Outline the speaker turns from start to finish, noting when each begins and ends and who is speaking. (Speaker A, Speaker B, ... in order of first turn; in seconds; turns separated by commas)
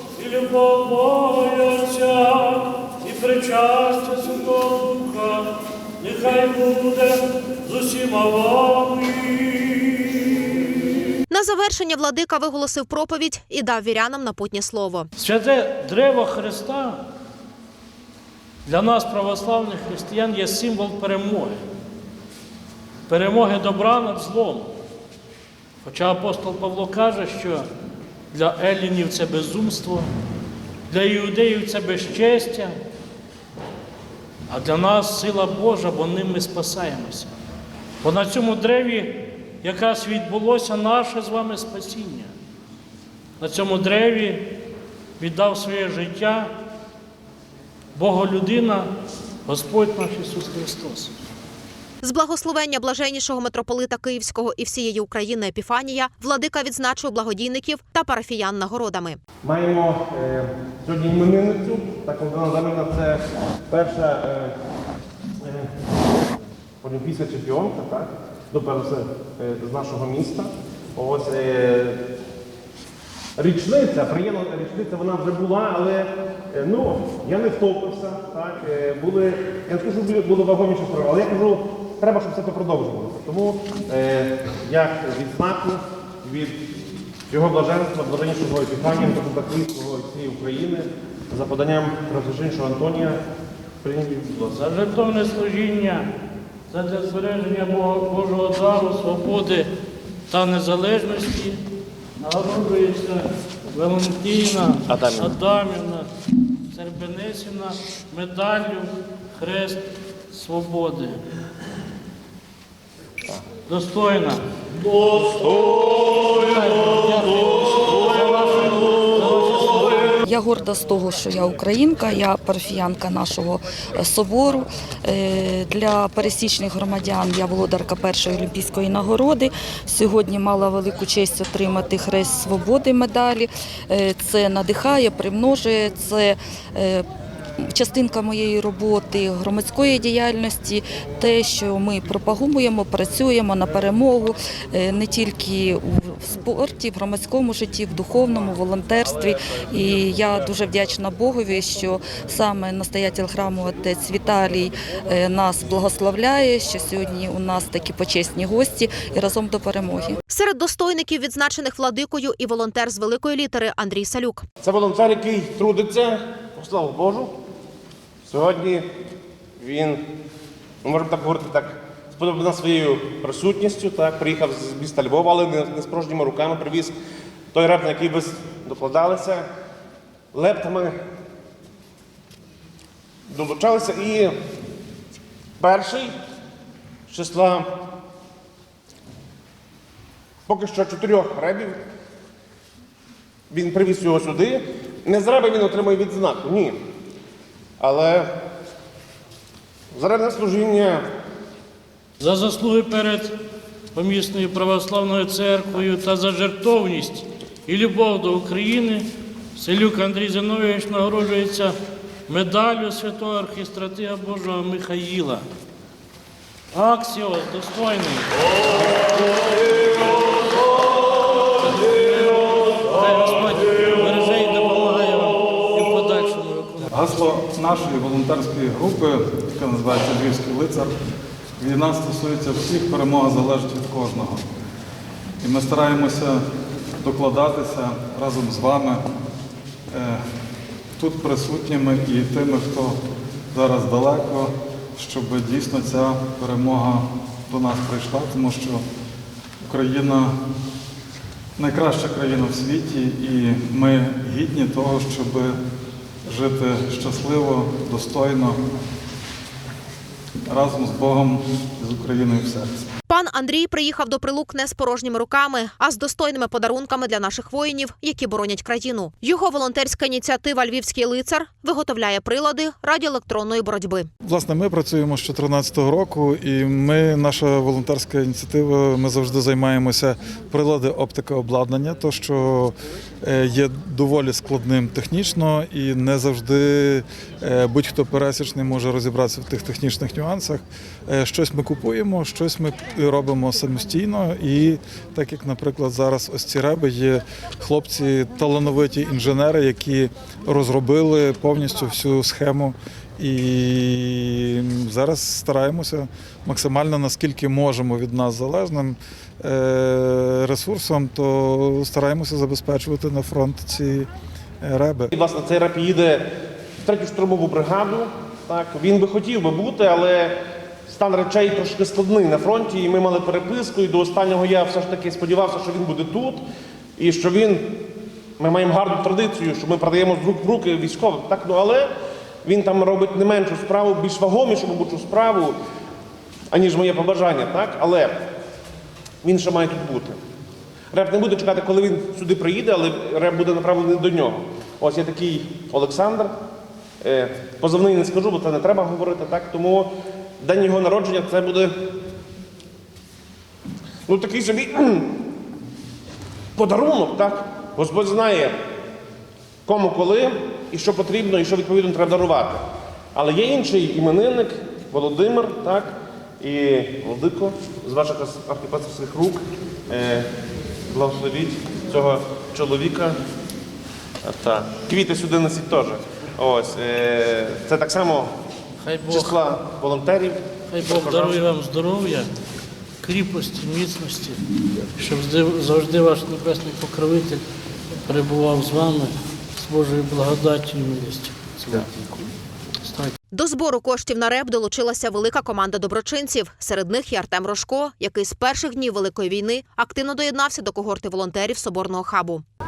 Speaker A: 0.1-5.5, Speaker A: 6.0-10.8, Speaker B: 11.3-15.1, Speaker A: 15.2-17.0, Speaker A: 18.6-21.6, Speaker A: 23.1-24.7, Speaker A: 25.8-27.7, Speaker A: 28.3-30.1, Speaker A: 30.9-32.8, Speaker A: 34.5-37.3, Speaker A: 38.0-42.3, Speaker A: 43.4-44.5, Speaker A: 45.2-46.5, Speaker A: 47.9-48.9, Speaker A: 49.5-51.1, Speaker B: 52.0-59.2, Speaker C: 59.4-64.5, Speaker C: 65.4-65.7, Speaker C: 66.8-72.0, Speaker C: 73.4-86.5, Speaker C: 87.3-93.2, Speaker C: 93.8-94.4, Speaker A: 94.4-96.1, Speaker A: 96.7-99.7, Speaker A: 100.3-101.6, Speaker A: 102.2-106.1, Speaker C: 104.9-105.3, Speaker A: 106.7-111.2, Speaker A: 113.7-114.4, Speaker A: 116.4-120.2, Speaker D: 120.3-137.0, Speaker D: 137.7-160.1, Speaker B: 160.3-164.4, Speaker C: 164.6-167.3, Speaker C: 168.2-168.9, Speaker C: 169.6-170.0, Speaker C: 170.8-176.9, Speaker C: 177.5-179.4, Speaker C: 180.3-180.9, Speaker C: 183.3-184.3, Speaker C: 185.6-186.1, Speaker C: 187.1-187.7, Speaker C: 190.5-191.8, Speaker C: 193.5-196.8, Speaker C: 197.8-198.3, Speaker C: 199.9-201.0, Speaker A: 202.2-203.3, Speaker A: 203.9-211.7, Speaker A: 212.3-215.4, Speaker A: 216.7-219.9, Speaker A: 221.6-226.9, Speaker E: 226.9-230.9, Speaker E: 231.6-234.4, Speaker E: 235.4-236.4, Speaker E: 237.0-239.0, Speaker E: 239.9-240.2, Speaker E: 241.0-243.0, Speaker E: 243.5-248.8, Speaker E: 249.6-250.3, Speaker E: 251.6-255.5, Speaker E: 256.2-258.6, Speaker E: 260.5-262.9, Speaker B: 263.1-274.1, Speaker E: 274.2-314.1, Speaker E: 314.6-315.1, Speaker C: 315.1-316.2, Speaker C: 316.8-320.3, Speaker C: 320.9-326.4, Speaker C: 327.0-327.8, Speaker C: 328.4-331.9, Speaker C: 332.4-335.5, Speaker C: 336.5-338.2, Speaker C: 339.2-340.2, Speaker C: 340.9-346.3, Speaker C: 347.0-351.7, Speaker C: 354.1-355.1, Speaker C: 356.6-358.5, Speaker C: 359.6-370.3, Speaker C: 370.9-373.2, Speaker C: 374.2-378.3, Speaker A: 378.8-379.4, Speaker C: 379.1-381.4, Speaker A: 380.7-382.3, Speaker A: 383.0-384.4, Speaker A: 384.9-387.4, Speaker A: 388.1-392.3, Speaker A: 392.8-393.1, Speaker B: 393.3-402.4